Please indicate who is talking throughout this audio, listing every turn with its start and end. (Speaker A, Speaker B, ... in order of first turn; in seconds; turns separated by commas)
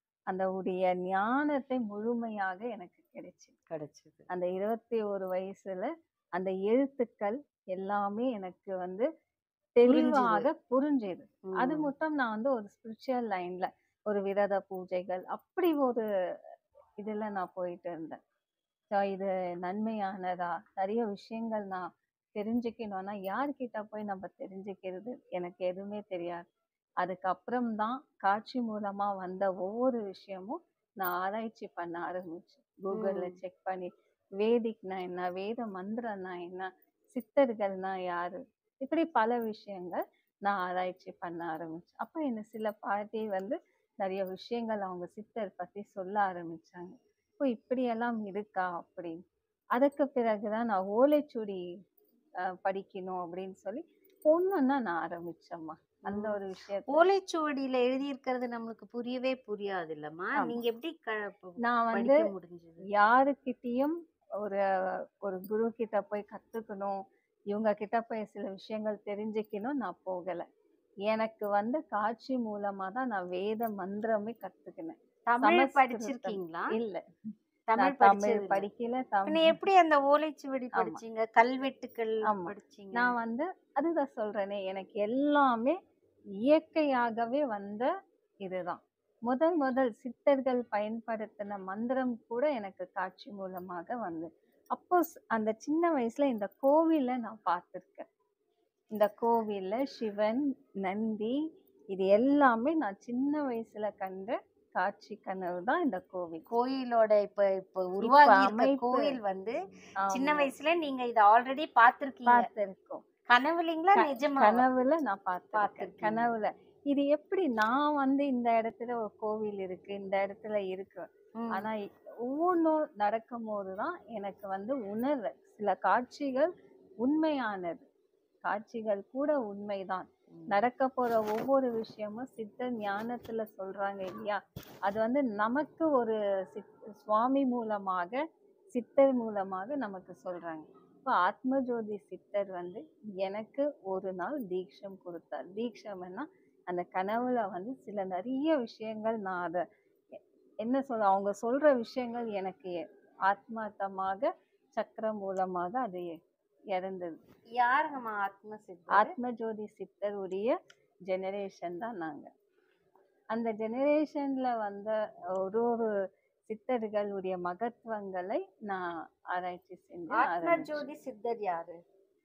Speaker A: 0.3-3.5, Speaker B: 3.7-4.3, Speaker A: 4.3-9.1, Speaker A: 9.8-16.0, Speaker B: 9.8-10.5, Speaker B: 11.5-11.9, Speaker A: 17.0-18.2, Speaker A: 18.9-26.4, Speaker A: 27.0-33.9, Speaker B: 32.9-33.4, Speaker A: 34.4-49.2, Speaker A: 49.8-51.6, Speaker A: 52.4-57.1, Speaker B: 56.1-62.8, Speaker A: 61.6-62.3, Speaker A: 62.9-64.6, Speaker A: 65.2-67.0, Speaker A: 67.5-70.5, Speaker A: 71.1-77.0, Speaker B: 75.3-76.7, Speaker B: 77.7-78.6, Speaker A: 77.8-79.6, Speaker B: 79.2-83.2, Speaker A: 80.7-81.0, Speaker A: 82.2-85.8, Speaker A: 86.4-87.9, Speaker A: 88.4-98.1, Speaker A: 98.9-101.4, Speaker A: 101.9-106.4, Speaker B: 106.5-109.6, Speaker A: 108.0-109.2, Speaker A: 110.0-110.5, Speaker B: 110.1-112.5, Speaker A: 112.2-113.0, Speaker B: 113.3-114.6, Speaker A: 114.0-126.5, Speaker B: 115.5-116.3, Speaker B: 121.4-121.7, Speaker A: 127.0-127.9, Speaker A: 128.4-138.2, Speaker B: 130.3-130.7, Speaker A: 138.7-149.6, Speaker A: 150.6-156.2, Speaker A: 156.7-157.2, Speaker B: 157.5-159.1, Speaker A: 158.9-160.6, Speaker A: 161.1-162.3, Speaker A: 163.3-165.9, Speaker A: 166.5-170.9, Speaker B: 170.1-171.8